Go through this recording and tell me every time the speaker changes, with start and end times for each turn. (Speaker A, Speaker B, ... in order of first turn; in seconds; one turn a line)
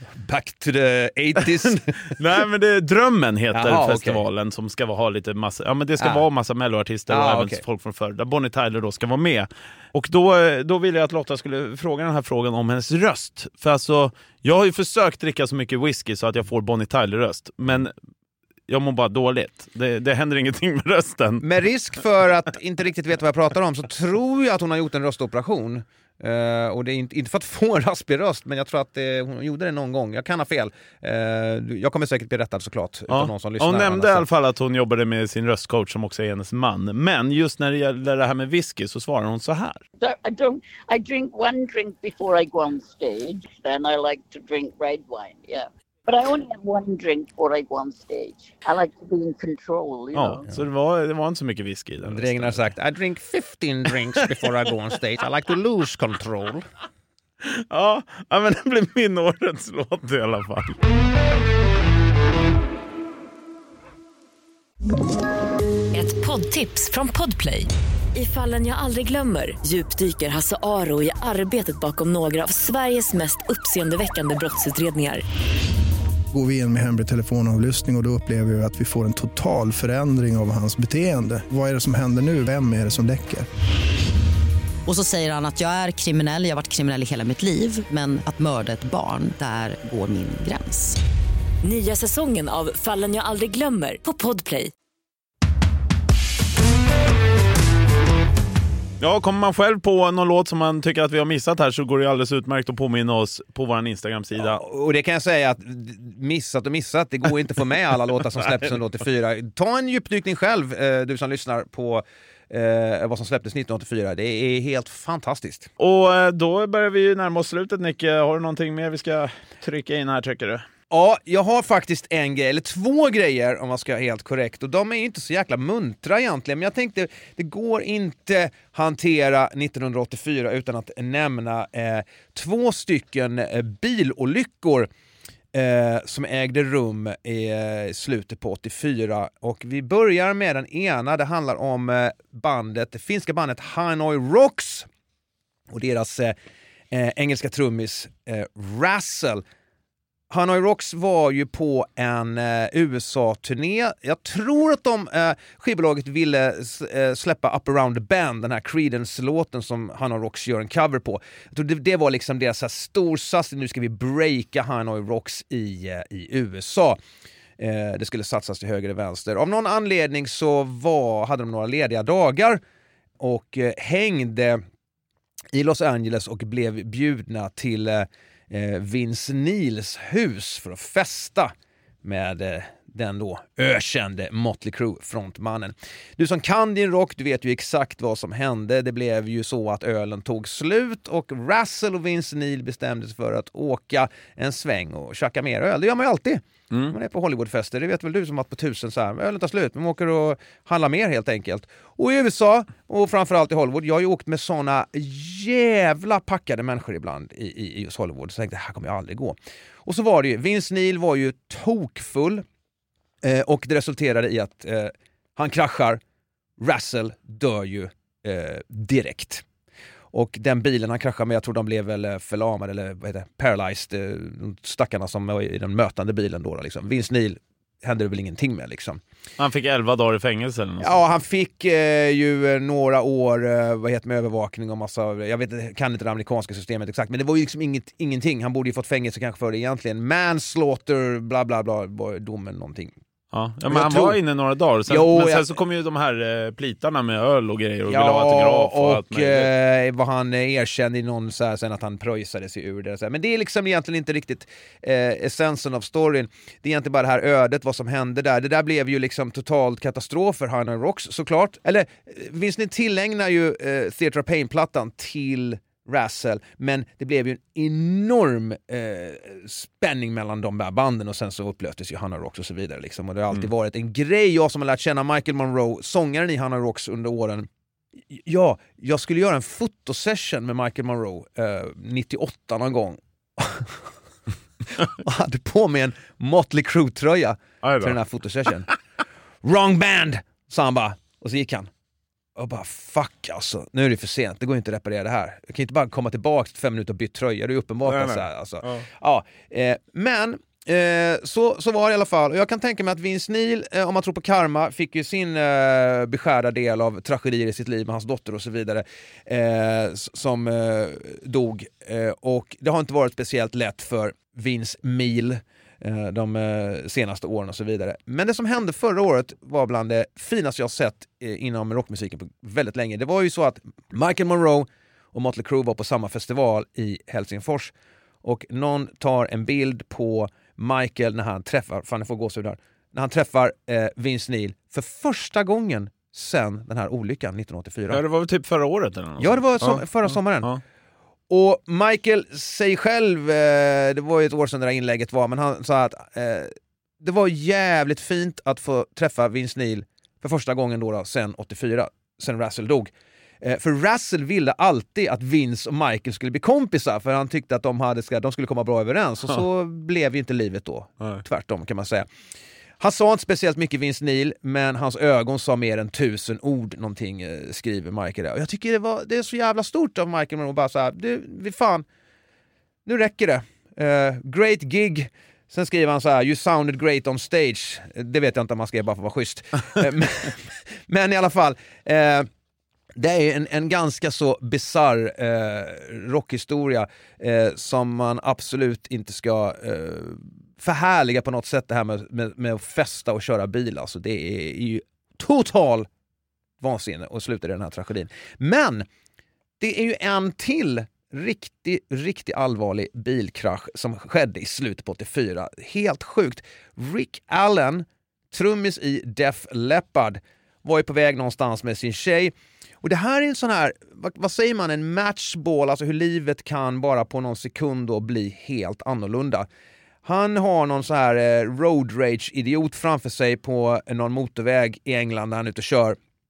Speaker A: 0.2-2.2
Speaker B: 2.1-17.9
Speaker A: 3.5-4.2
Speaker A: 6.0-6.2
Speaker A: 7.1-7.6
Speaker B: 18.7-21.4
Speaker A: 21.4-34.3
Speaker B: 33.1-39.8
Speaker C: 40.0-50.4
Speaker B: 50.1-52.7
Speaker A: 52.0-56.6
Speaker B: 57.4-60.8
Speaker D: 65.9-75.2
Speaker E: 76.3-83.5
Speaker F: 84.8-91.0
Speaker D: 91.6-94.7
Speaker B: 99.0-104.6
Speaker A: 104.4-115.7
Speaker B: 115.8-120.7
Speaker A: 120.9-134.9
Speaker A: 135.5-144.9
Speaker A: 145.7-146.3
Speaker A: 146.9-149.4
Speaker A: 150.3-167.0
Speaker A: 167.6-172.6
Speaker A: 173.2-174.6
Speaker A: 175.5-181.5
Speaker A: 182.0-212.4
Speaker A: 213.2-216.0
Speaker A: 216.6-219.4
Speaker A: 220.1-229.0
Speaker B: 229.4-231.0
Speaker A: 230.8-242.9
Speaker B: 243.3-249.5
Speaker A: 243.7-244.2
Speaker A: 244.9-245.5
Speaker A: 247.9-277.5
Speaker A: 278.2-283.8
Speaker A: 284.8-288.7
Speaker B: 287.6-288.0
Speaker A: 289.4-291.7
Speaker A: 292.4-327.7
Speaker B: 297.8-298.8
Speaker A: 328.2-338.0
Speaker B: 337.9-340.6
Speaker A: 339.2-340.5
Speaker A: 341.3-352.9
Speaker A: 353.4-362.1
Speaker A: 362.8-371.9
Speaker A: 372.9-382.3
Speaker A: 383.0-395.9
Speaker A: 396.6-398.8
Speaker A: 399.6-419.5
Speaker A: 420.0-426.0